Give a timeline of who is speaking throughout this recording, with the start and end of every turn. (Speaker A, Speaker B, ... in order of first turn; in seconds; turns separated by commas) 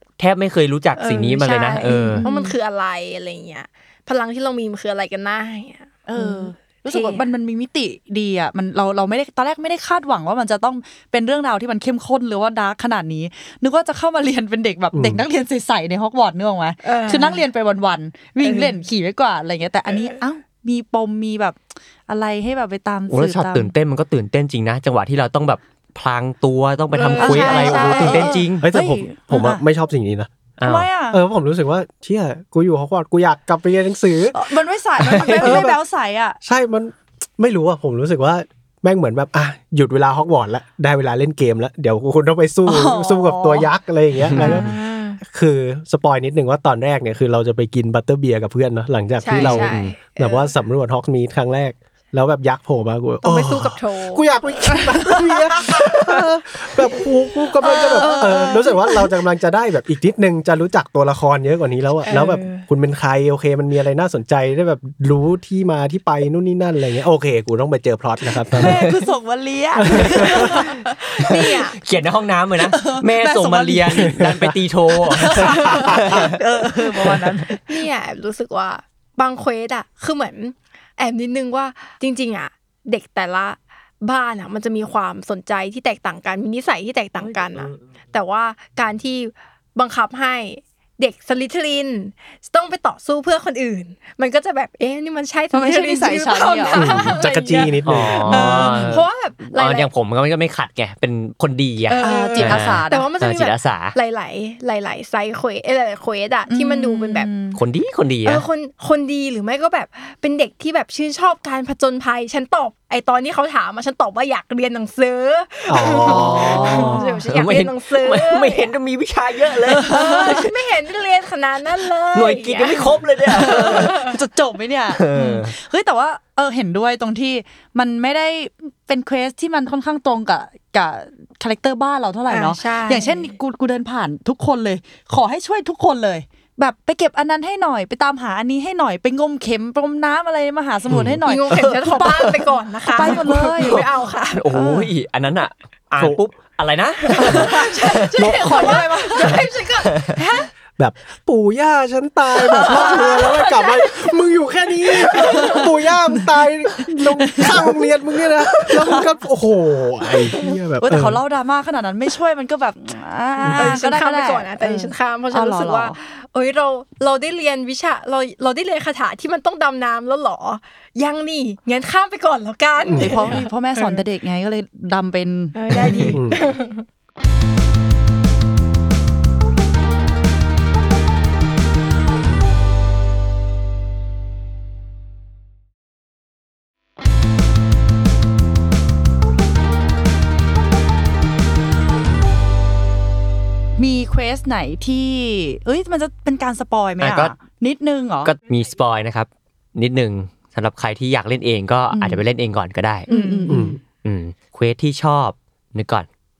Speaker A: 0.2-2.2, Speaker B: 0.9-7.2, Speaker C: 2.0-2.5, Speaker C: 6.1-23.7, Speaker D: 14.9-15.2, Speaker B: 16.8-17.4, Speaker B: 18.4-18.8, Speaker B: 19.9-20.2, Speaker A: 23.1-28.7, Speaker B: 26.9-28.4, Speaker C: 27.1-29.6, Speaker D: 27.6-30.3, Speaker A: 30.6-30.9, Speaker C: 30.6-31.2, Speaker D: 31.1-34.4, Speaker C: 34.3-36.4, Speaker A: 35.0-35.6, Speaker D: 35.4-35.8, Speaker D: 36.4-44.7, Speaker C: 42.6-43.7, Speaker A: 44.3-44.6, Speaker B: 44.4-45.2, Speaker D: 45.2-68.8, Speaker B: 49.2-50.5, Speaker A: 49.3-49.9, Speaker B: 53.2-56.2, Speaker B: 56.8-57.0, Speaker B: 57.6-59.1, Speaker C: 57.6-58.7, Speaker B: 62.0-62.6, Speaker A: 68.5-68.9, Speaker C: 68.5-70.8, Speaker D: 69.8-70.6, Speaker B: 70.3-71.8, Speaker A: 71.2-76.3, Speaker C: 72.7-74.2, Speaker D: 74.0-74.5, Speaker C: 75.1-77.7, Speaker B: 75.7-75.9, Speaker D: 75.7-76.2, Speaker A: 76.8-77.4, Speaker B: 77.7-99.9, Speaker C: 95.5-97.1, Speaker D: 96.7-98.7, Speaker A: 97.8-104.0, Speaker C: 98.3-99.0, Speaker B: 101.9-107.3, Speaker C: 102.0-103.1, Speaker C: 106.5-107.6, Speaker A: 107.5-108.5, Speaker B: 108.2-118.7, Speaker D: 115.7-117.0, Speaker A: 116.0-120.5, Speaker C: 116.1-117.2, Speaker C: 119.7-120.5, Speaker B: 119.8-124.2, Speaker A: 122.1-124.1, Speaker C: 123.3-142.2, Speaker A: 124.9-125.5, Speaker B: 125.1-125.4, Speaker B: 132.3-133.2, Speaker D: 140.9-141.2, Speaker B: 141.2-144.4, Speaker A: 141.5-149.4, Speaker C: 142.9-143.8, Speaker C: 144.5-144.9, Speaker B: 147.1-150.5, Speaker D: 148.2-148.7, Speaker C: 148.4-149.4, Speaker D: 150.8-161.2, Speaker B: 152.4-154.2, Speaker B: 154.9-155.7, Speaker C: 156.9-157.8, Speaker B: 157.4-157.8, Speaker C: 158.7-159.1, Speaker C: 160.8-165.9, Speaker D: 163.4-163.7, Speaker B: 163.5-174.0, Speaker D: 172.8-173.2, Speaker C: 173.0-176.2, Speaker B: 175.5-176.8, Speaker D: 176.1-176.4, Speaker C: 193.8-198.3, Speaker A: 197.0-197.3, Speaker A: 198.2-203.1, Speaker C: 201.9-202.2, Speaker B: 203.1-203.6, Speaker C: 203.1-203.8, Speaker D: 203.5-203.8, Speaker A: 204.0-206.1